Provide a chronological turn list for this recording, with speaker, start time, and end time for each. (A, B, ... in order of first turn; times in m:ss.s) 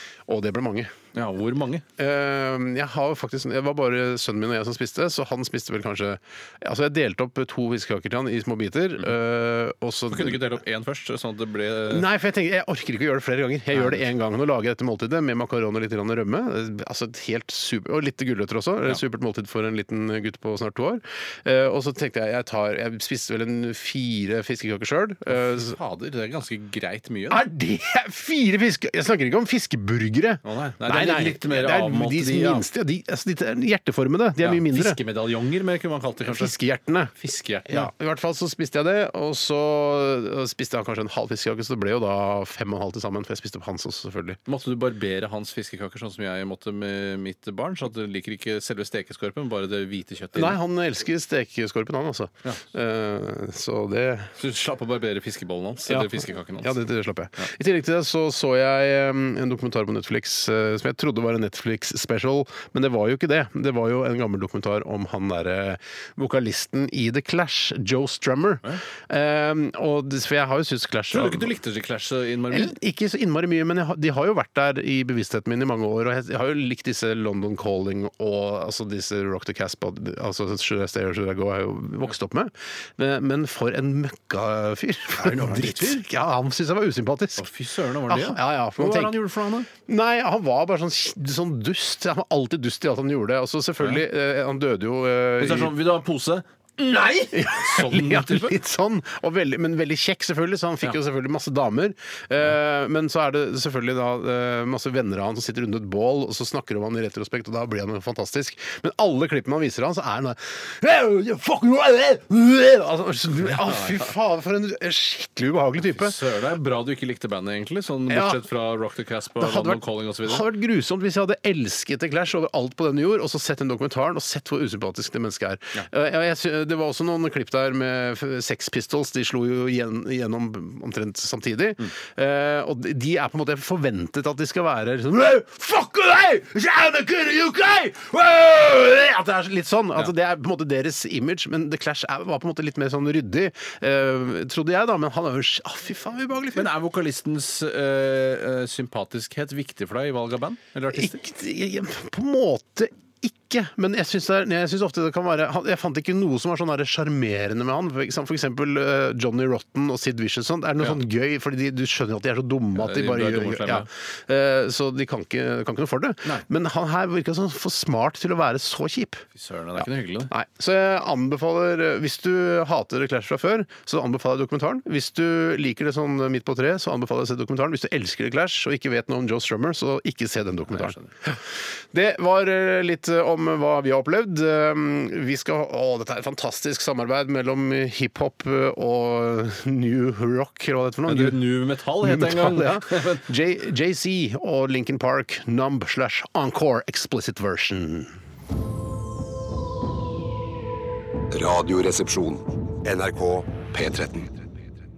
0:00.3-0:00.9 A
0:01.1-0:01.8 B
0:02.0-0:10.6 A
0:10.1-0:12.0 B
0:11.9-0:25.8 A
0:13.7-0:14.0 B
0:25.3-0:27.4 B
0:27.3-0:35.0 A
0:30.4-0:32.6 B
0:34.4-0:36.5 B
0:36.2-0:37.1 A
0:37.2-0:37.9 B
0:37.7-0:44.4 A
0:44.5-0:50.6 B
0:50.3-0:54.3 A
0:54.4-0:56.8 B
0:55.9-1:11.6 A
1:11.1-1:12.8 B
1:12.5-1:27.5 A
1:25.2-1:26.0 B
1:27.4-1:29.7 B
1:28.1-1:29.2 A
1:29.7-1:35.7 A
1:35.4-1:38.6 B
1:37.3-1:56.2 A
1:53.6-1:54.0 B
1:55.8-2:00.4 B
1:58.1-1:58.4 A
1:59.4-2:26.7 A
2:26.5-2:31.2 B
2:30.9-2:49.2 A
2:42.7-2:43.9 B
2:49.3-2:50.3 B
2:49.8-3:18.2 A
3:00.7-3:01.1 B
3:11.1-3:13.2 B
3:21.3-3:24.4 C